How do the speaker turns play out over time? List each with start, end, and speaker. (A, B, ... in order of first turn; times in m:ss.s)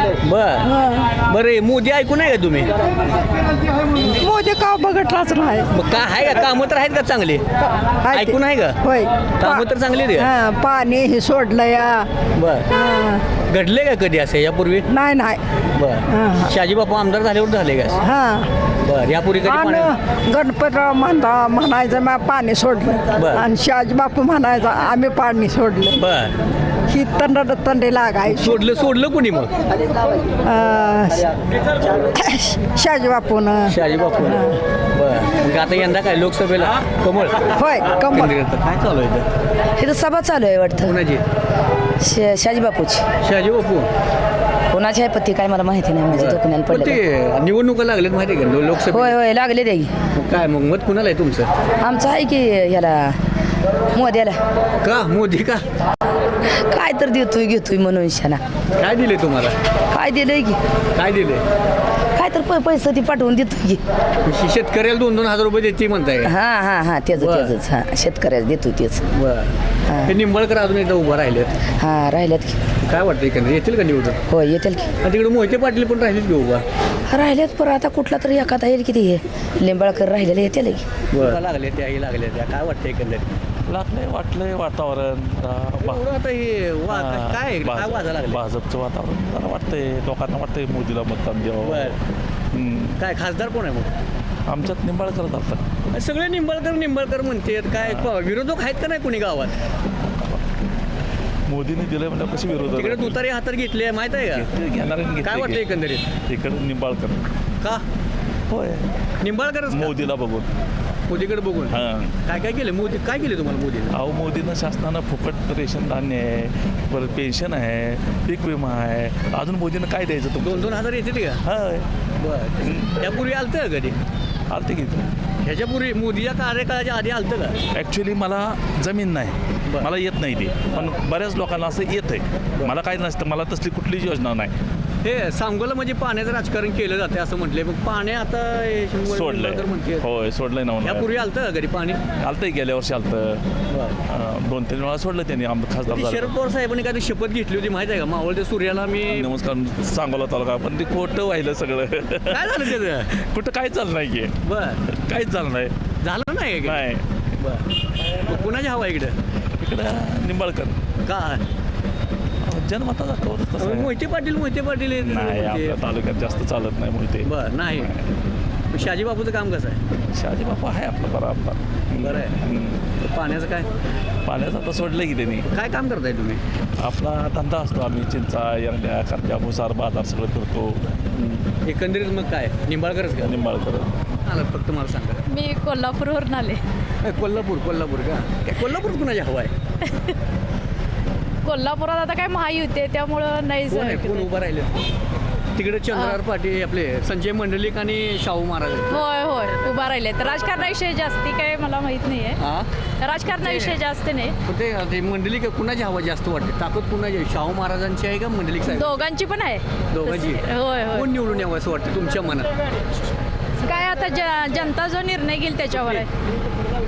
0:00.2-0:02.7 A
0:00.7-0:01.1 B
0:04.2-0:05.7 B
0:05.7-0:07.4 A
0:08.1-0:09.6 B
0:08.1-0:08.8 A
0:09.4-0:10.3 A
0:10.2-0:12.1 B
0:12.4-0:12.7 A
0:12.7-0:13.2 B
0:13.5-0:14.8 A
0:14.9-0:15.4 B
0:15.8-0:18.0 A
0:16.1-0:16.5 B
0:18.0-0:18.5 B
0:18.8-0:19.9 A
0:19.5-0:26.0 B
0:23.2-0:23.4 A
0:26.0-0:26.3 A
0:26.9-0:28.6 B
0:28.3-0:29.5 A
0:30.4-0:31.3 B
0:32.1-0:34.5 B
0:33.7-0:39.3 A
0:37.6-0:38.3 B
0:39.8-0:41.0 C
0:40.8-0:41.2 A
0:42.0-0:43.0 C
0:43.2-0:43.9 A
0:44.7-0:47.0 C
0:46.1-0:49.2 A
0:48.9-0:49.9 C
0:50.2-0:51.5 A
0:51.8-0:53.2 C
0:53.9-0:54.4 C
0:54.8-0:55.6 A
0:56.5-0:58.4 C
0:58.8-0:59.6 A
0:59.9-1:00.6 C
1:01.0-1:01.4 A
1:02.2-1:03.8 C
1:04.2-1:06.3 A
1:06.2-1:09.0 C
1:07.1-1:07.5 A
1:09.1-1:09.5 A
1:09.9-1:10.1 C
1:10.0-1:11.5 A
1:11.8-1:12.6 C
1:12.8-1:14.2 A
1:14.3-1:14.9 C
1:15.0-1:16.6 A
1:17.1-1:20.8 C
1:21.1-1:23.3 A
1:23.7-1:26.0 D
1:25.8-1:28.4 A
1:27.0-1:31.9 D
1:31.6-1:32.0 A
1:32.5-1:32.9 D
1:33.0-1:33.9 A
1:34.5-1:35.6 D
1:35.9-1:39.6 A
1:41.5-1:43.1 D
1:42.8-1:44.5 A
1:44.3-1:45.6 D
1:45.2-1:46.0 A
1:46.3-1:47.3 D
1:48.5-1:48.8 D
1:49.2-1:50.0 A
1:49.8-1:50.5 D
1:51.1-1:54.0 A
1:51.8-1:52.1 D
1:53.9-2:00.7 D
2:00.4-2:01.4 A
2:01.5-2:01.8 D
2:02.2-2:04.0 A
2:04.5-2:05.1 D
2:05.4-2:07.6 A
2:07.7-2:14.5 D
2:15.0-2:20.1 A
2:19.1-2:21.1 D
2:20.8-2:22.0 A
2:22.2-2:23.4 D
2:23.7-2:24.0 A
2:24.1-2:26.3 D
2:25.9-2:29.3 A
2:29.1-2:32.5 D
2:32.3-2:33.1 A
2:33.2-2:34.3 D
2:34.4-2:34.8 A
2:35.0-2:35.7 D
2:36.0-2:36.8 A
2:36.7-2:37.0 D
2:37.4-2:39.2 A
2:39.6-2:40.8 D
2:41.0-2:41.4 A
2:42.5-2:43.9 D
2:43.6-2:45.8 A
2:45.2-2:47.3 D
2:47.2-2:47.9 A
2:48.7-2:49.8 A
2:50.2-2:52.8 D
2:52.0-2:52.4 A
2:53.0-2:53.7 A
2:54.2-2:55.4 D
2:55.5-2:56.4 A
2:56.8-3:01.0 D
3:01.6-3:03.3 A
3:03.2-3:03.9 D
3:04.2-3:05.2 A
3:05.3-3:06.6 E
3:07.0-3:09.5 A
3:09.9-3:10.1 E
3:11.4-3:14.3 E
3:13.7-3:14.8 A
3:15.6-3:19.0 A
3:15.9-3:16.2 E
3:18.9-3:22.4 E
3:22.4-3:22.7 A
3:23.0-3:24.4 E
3:23.3-3:23.8 A
3:24.4-3:29.1 A
3:28.7-3:31.1 E
3:29.9-3:32.5 A
3:33.6-3:36.1 E
3:35.7-3:36.0 A